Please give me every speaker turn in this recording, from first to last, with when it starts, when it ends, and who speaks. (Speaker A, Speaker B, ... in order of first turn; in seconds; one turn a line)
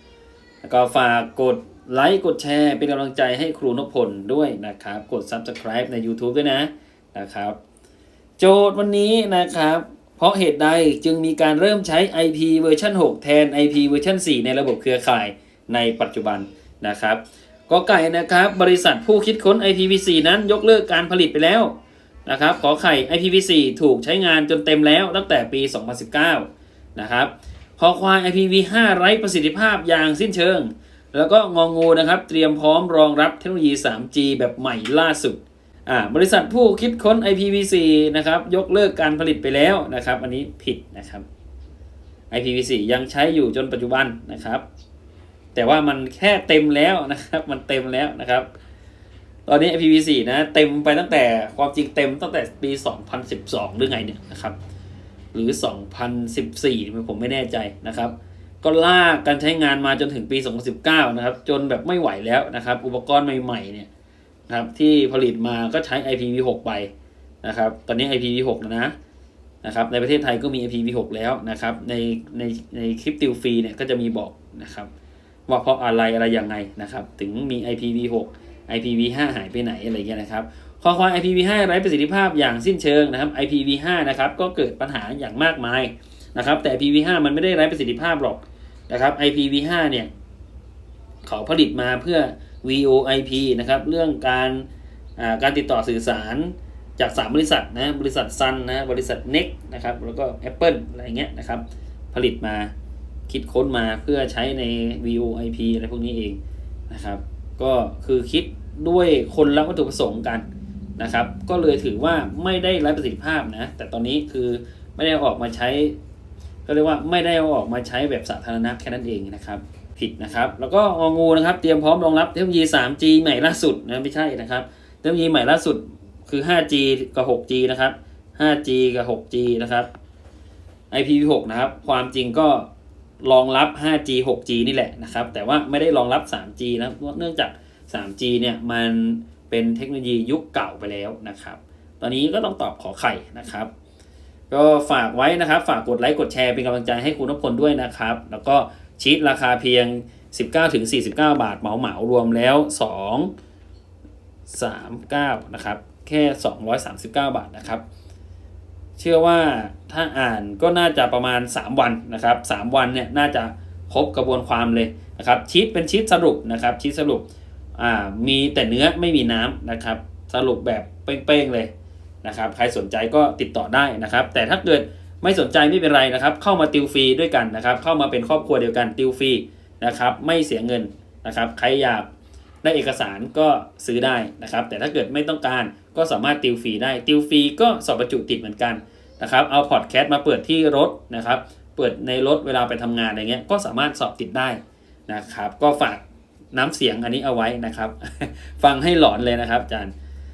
Speaker A: 0.6-7.6
Speaker A: 8.4-41.2
Speaker A: 42.3-44.6
Speaker A: 45.5-48.5
Speaker A: 49.5-54.6
Speaker A: 55.3-63.9
Speaker A: 64.5-66.9
Speaker A: 67.4-68.9
Speaker A: 69.6-74.9
Speaker A: 75.5-90.1
Speaker A: 91.2-102.7
Speaker A: 103.3-106.4
Speaker A: 106.9-110.5
Speaker A: 111.0-116.0
Speaker A: 116.7-129.9
Speaker A: 130.9-132.7
Speaker A: 133.2-143.7
Speaker A: 144.5-153.3
Speaker A: 154.5-157.8
Speaker A: 159.0-171.7
Speaker A: 172.2-182.1
Speaker A: 182.6-199.9